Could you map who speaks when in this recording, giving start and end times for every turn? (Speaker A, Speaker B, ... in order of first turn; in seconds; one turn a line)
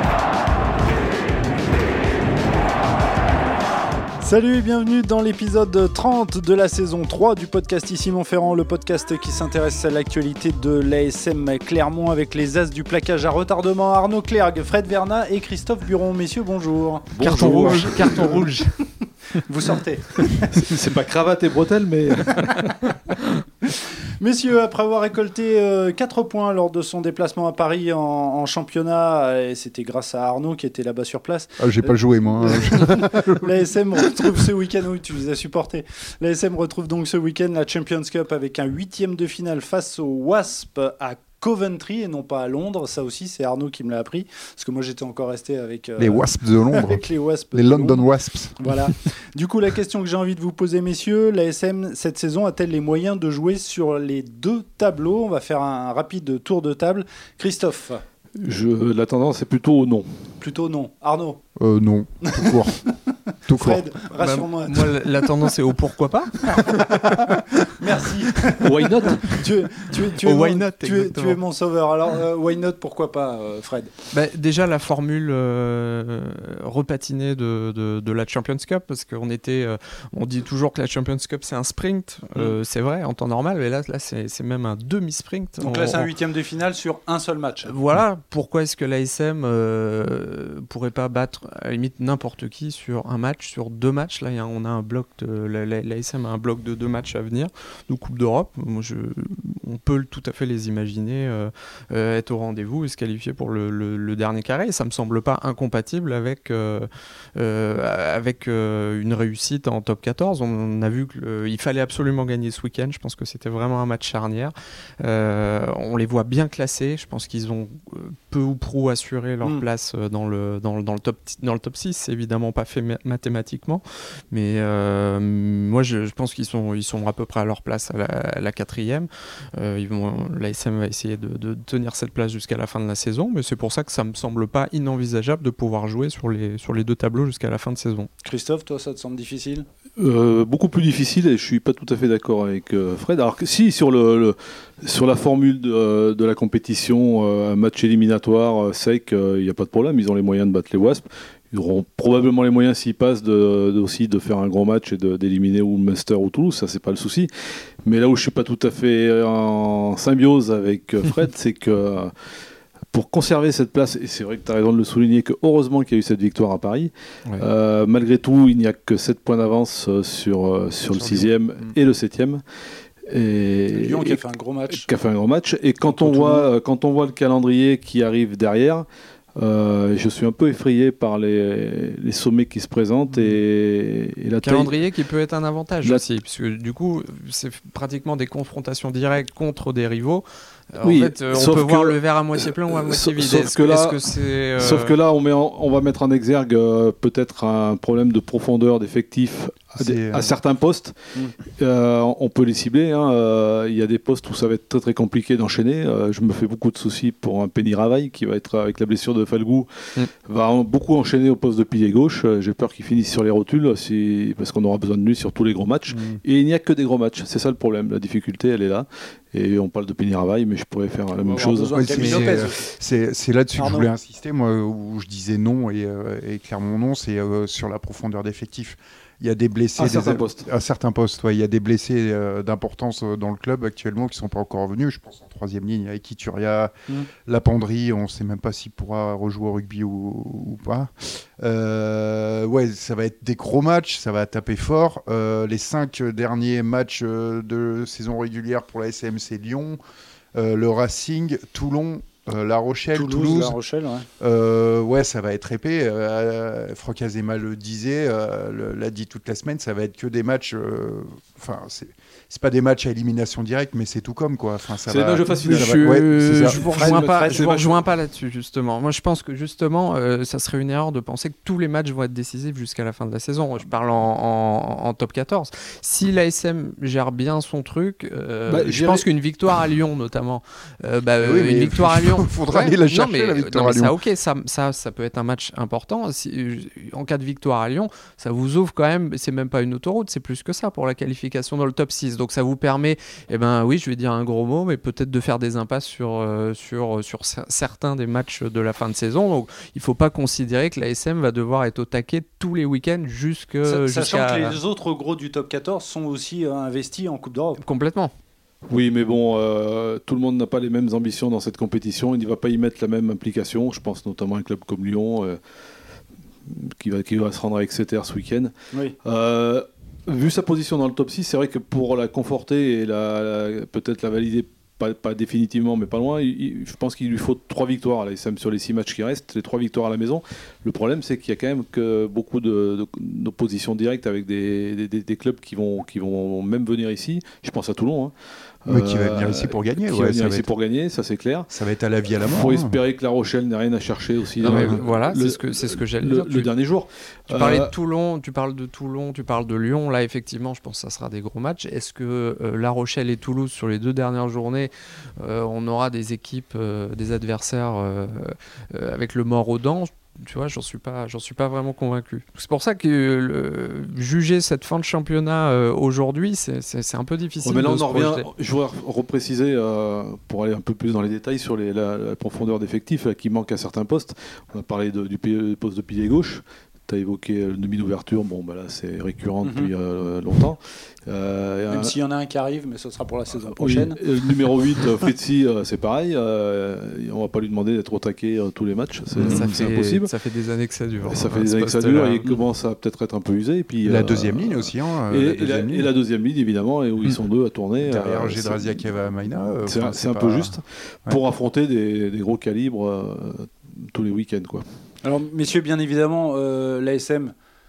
Speaker A: 4.2-18.6
Speaker B: 17.1-18.3
Speaker C: 17.2-18.7
Speaker A: 19.3-20.7
Speaker B: 20.4-22.7
Speaker A: 24.2-48.0
Speaker D: 31.6-33.5
Speaker D: 46.0-48.7
Speaker A: 48.6-58.0
Speaker B: 58.4-60.1
Speaker A: 60.4-61.4
Speaker D: 61.6-62.8
Speaker A: 62.3-62.6
Speaker D: 63.5-63.9
Speaker A: 63.5-65.0
Speaker C: 64.1-67.0
Speaker A: 66.5-73.9
Speaker B: 68.6-69.4
Speaker C: 70.1-71.4
Speaker C: 74.1-86.1
Speaker A: 85.6-87.7
Speaker C: 87.7-138.1
Speaker A: 138.2-139.7
Speaker B: 140.0-157.3
Speaker B: 157.8-162.1
Speaker B: 162.9-172.4
Speaker D: 170.9-171.7
Speaker B: 173.1-174.2
Speaker A: 173.7-174.8
Speaker B: 174.7-178.8
Speaker A: 175.8-176.5
Speaker B: 179.4-184.7
Speaker C: 184.4-194.9
Speaker B: 190.8-222.2
Speaker D: 199.8-200.3
Speaker D: 215.9-216.2
Speaker A: 221.2-222.7
Speaker D: 221.7-249.8
Speaker C: 221.9-222.5
Speaker A: 223.6-223.9
Speaker B: 229.8-230.4
Speaker D: 250.3-253.6
Speaker A: 252.9-254.1
Speaker D: 254.2-266.6
Speaker B: 264.9-267.8
Speaker C: 266.5-304.6
Speaker A: 266.7-267.4
Speaker B: 278.5-279.1
Speaker D: 281.2-283.9
Speaker A: 303.6-307.6
Speaker C: 307.6-308.1
Speaker B: 308.7-315.4
Speaker B: 316.4-318.5
Speaker B: 319.0-338.1
Speaker B: 338.6-341.5
Speaker D: 338.7-340.5
Speaker D: 341.5-342.8
Speaker B: 342.1-347.7
Speaker C: 344.4-346.5
Speaker D: 344.4-344.8
Speaker C: 347.3-368.3
Speaker B: 367.4-381.9
Speaker A: 379.4-379.7
Speaker A: 381.7-384.0
Speaker B: 383.5-390.1
Speaker D: 389.1-389.6
Speaker C: 389.2-392.4
Speaker B: 391.1-398.8
Speaker D: 393.8-395.9
Speaker D: 397.8-401.2
Speaker B: 399.6-404.6
Speaker A: 405.0-407.3